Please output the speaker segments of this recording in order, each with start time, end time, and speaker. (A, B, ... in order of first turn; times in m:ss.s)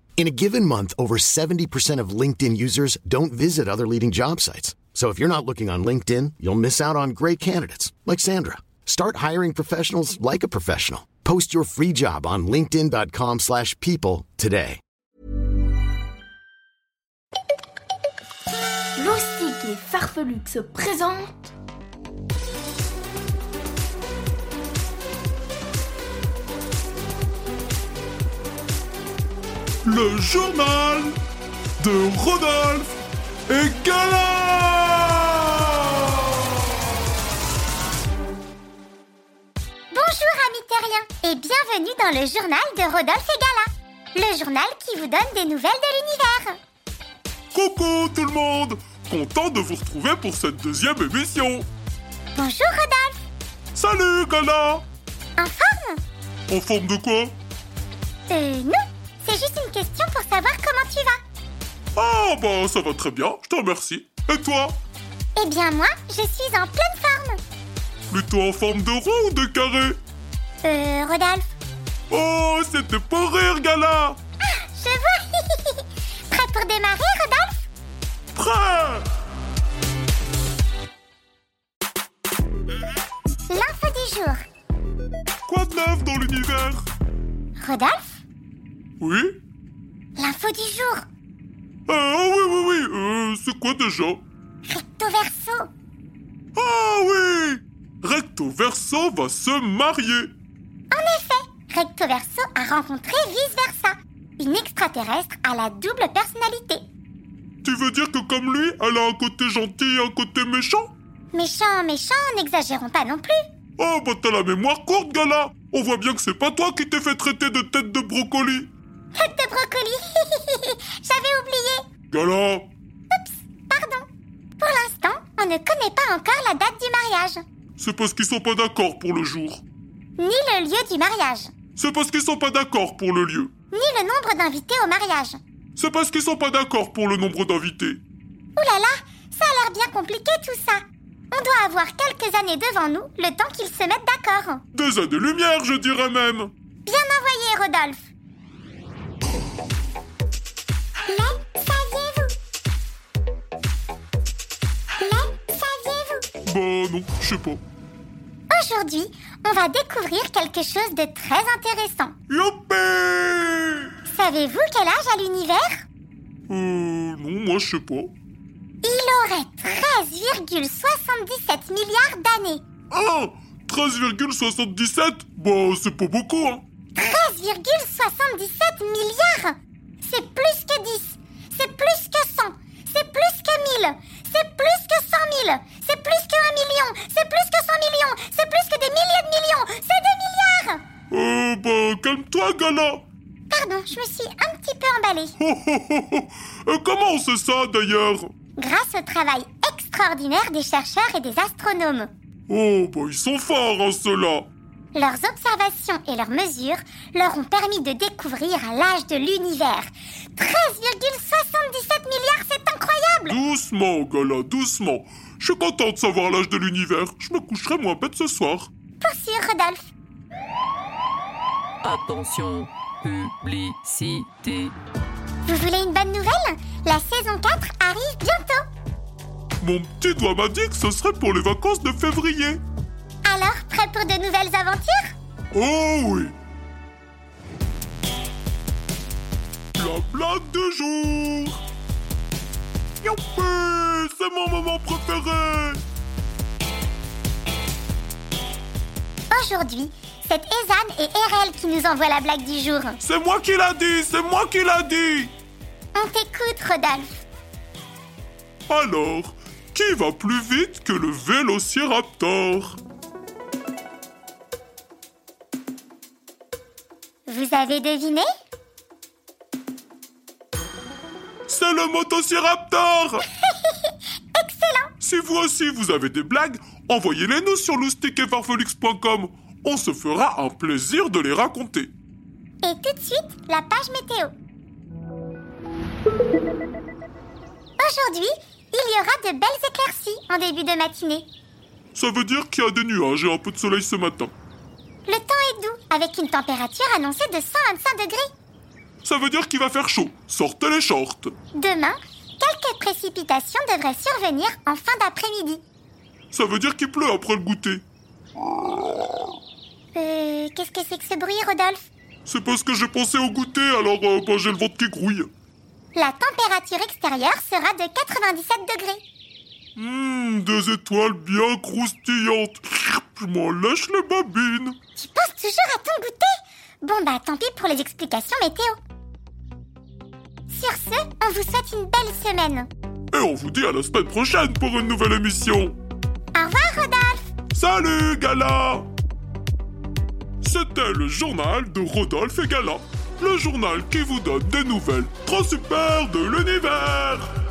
0:00.2-0:14.8 A
0:19.0-0:21.5 B
0:29.8-0:31.2 C
0:31.8-0:32.9 C
0:33.5-0:36.3 C
0:39.9-0:46.6 D
0:47.5-0:51.7 C
0:52.4-0:53.2 D
0:53.7-0:54.8 C
0:55.4-0:56.0 D
0:56.5-0:57.4 C
0:58.3-1:01.2 D
1:02.0-1:04.8 C
1:05.4-1:07.4 D
1:08.1-1:10.0 C
1:10.6-1:11.5 D
1:12.1-1:14.2 C
1:14.4-1:17.7 D
1:18.4-1:19.1 C
1:23.5-1:24.4 D
1:25.5-1:26.8 C
1:27.6-1:28.2 D
1:29.0-1:29.4 C
1:30.2-1:31.1 D
1:31.9-1:34.2 C
1:34.6-1:35.7 D
1:36.6-1:40.3 C
1:40.9-1:46.8 D
1:47.6-1:50.9 C
1:51.3-1:53.4 D
1:53.8-1:58.7 C
1:59.2-2:01.8 D
2:02.1-2:02.7 C
2:03.1-2:04.1 D
2:04.6-2:07.4 D
2:07.8-2:09.6 C
2:10.2-2:11.5 D
2:11.8-2:13.5 C
2:13.7-2:15.4 D
2:15.8-2:18.0 C
2:18.6-2:24.6 D
2:24.7-2:26.5 C
2:26.8-2:28.0 D
2:31.1-2:32.4 D
2:35.0-2:36.3 D
2:36.4-2:37.6 C
2:38.5-2:42.2 D
2:42.3-2:43.9 C
2:44.1-2:45.9 D
2:46.5-2:48.1 C
2:48.8-2:52.6 D
2:52.9-2:56.6 C
2:57.0-3:10.8 D
3:11.1-3:13.0 C
3:13.5-3:15.4 D
3:15.4-3:18.3 C
3:18.6-3:22.1 D
3:22.5-3:24.5 C
3:24.9-3:33.4 D
3:33.3-3:38.7 C
3:39.0-3:39.9 D
3:41.8-3:44.8 E
3:45.5-3:48.6 D
3:49.6-3:52.6 C
3:53.2-3:55.1 D
3:55.5-3:56.4 C
3:59.8-4:01.6 C
4:03.0-4:05.8 C
4:09.3-4:13.0 D
4:13.0-4:15.3 C
4:15.9-4:17.2 D
4:18.7-4:22.8 C
4:27.3-4:28.3 D
4:31.5-4:33.2 C
4:33.4-4:34.9 D
4:35.0-4:41.9 C
4:42.6-4:44.3 D
4:47.8-4:51.3 D
4:52.0-4:54.3 C
4:55.1-4:58.3 D
4:59.0-5:01.3 C
5:01.6-5:05.6 D
5:06.3-5:07.8 C
5:09.9-5:11.9 D
5:12.3-5:15.3 C
5:16.0-5:19.0 D
5:19.8-5:24.8 C
5:25.0-5:28.8 D
5:30.5-5:32.7 D
5:33.1-5:35.8 C
5:36.3-5:37.3 D
5:37.5-5:38.9 C
5:40.4-5:47.3 C